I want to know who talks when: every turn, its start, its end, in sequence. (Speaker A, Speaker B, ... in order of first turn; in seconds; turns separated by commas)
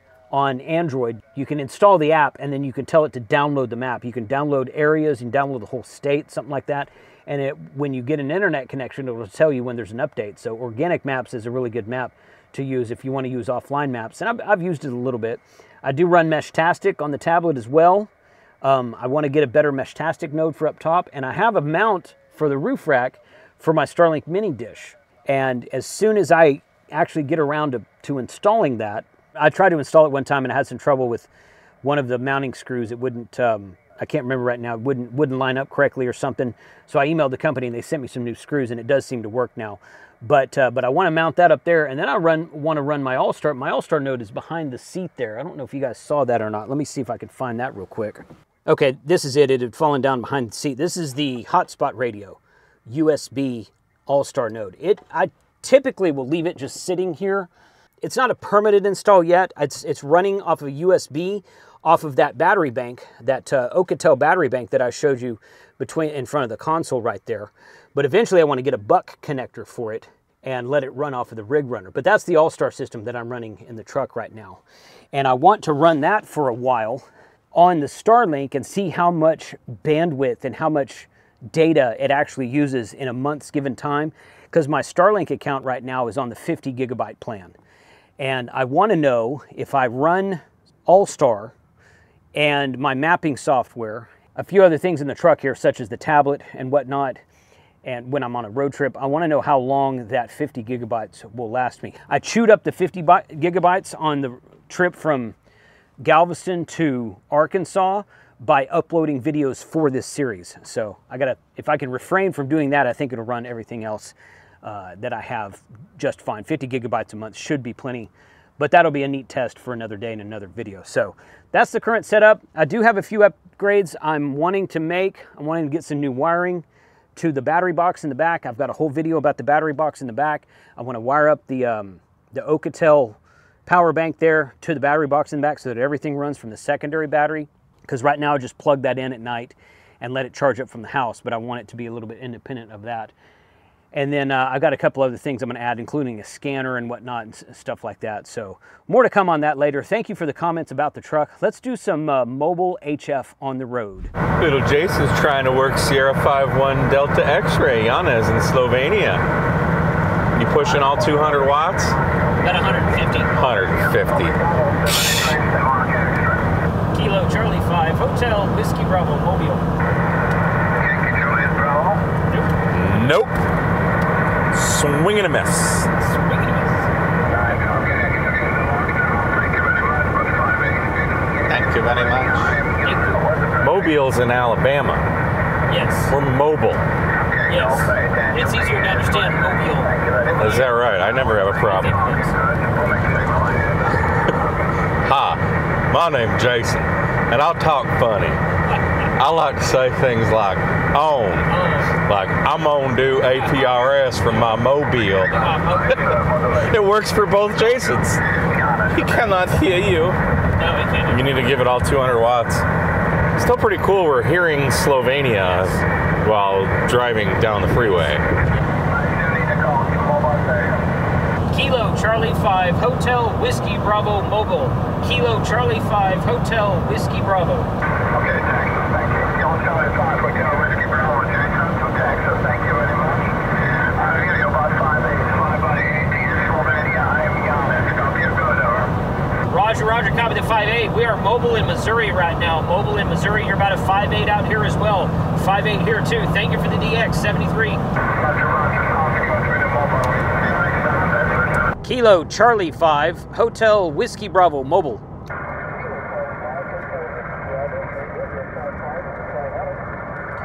Speaker A: 0.3-18.1, Speaker A: 18.6-31.3, Speaker A: 31.8-57.5, Speaker A: 58.0-87.5, Speaker A: 88.2-91.5, Speaker A: 92.3-97.2, Speaker A: 97.8-105.3, Speaker A: 106.0-143.1, Speaker A: 143.9-154.1, Speaker B: 154.4-159.3, Speaker B: 160.3-161.9, Speaker A: 162.4-163.3, Speaker B: 163.3-164.4, Speaker C: 164.3-166.3, Speaker A: 166.9-169.7, Speaker C: 171.1-172.0, Speaker A: 172.3-172.6, Speaker B: 172.7-173.4, Speaker B: 174.5-175.8, Speaker A: 175.8-176.9, Speaker C: 177.2-180.9, Speaker B: 181.5-182.6, Speaker C: 182.5-183.7, Speaker A: 182.8-183.2, Speaker B: 183.6-185.0, Speaker A: 185.7-186.1, Speaker B: 186.1-186.8, Speaker C: 187.3-188.3, Speaker A: 187.5-192.4, Speaker C: 189.9-190.3, Speaker B: 190.4-192.0, Speaker C: 192.3-193.7, Speaker B: 195.0-198.4, Speaker B: 199.2-208.2, Speaker A: 201.5-202.0, Speaker A: 205.3-206.0, Speaker C: 205.9-206.7, Speaker C: 208.3-209.0, Speaker B: 208.9-210.2, Speaker A: 210.6-211.4, Speaker B: 211.1-212.6, Speaker B: 213.3-218.2, Speaker A: 215.4-215.8, Speaker C: 218.9-220.8, Speaker A: 221.5-227.7, Speaker C: 228.1-238.9, Speaker A: 239.5-247.8, Speaker C: 248.2-251.6, Speaker A: 251.8-255.0, Speaker C: 255.8-259.6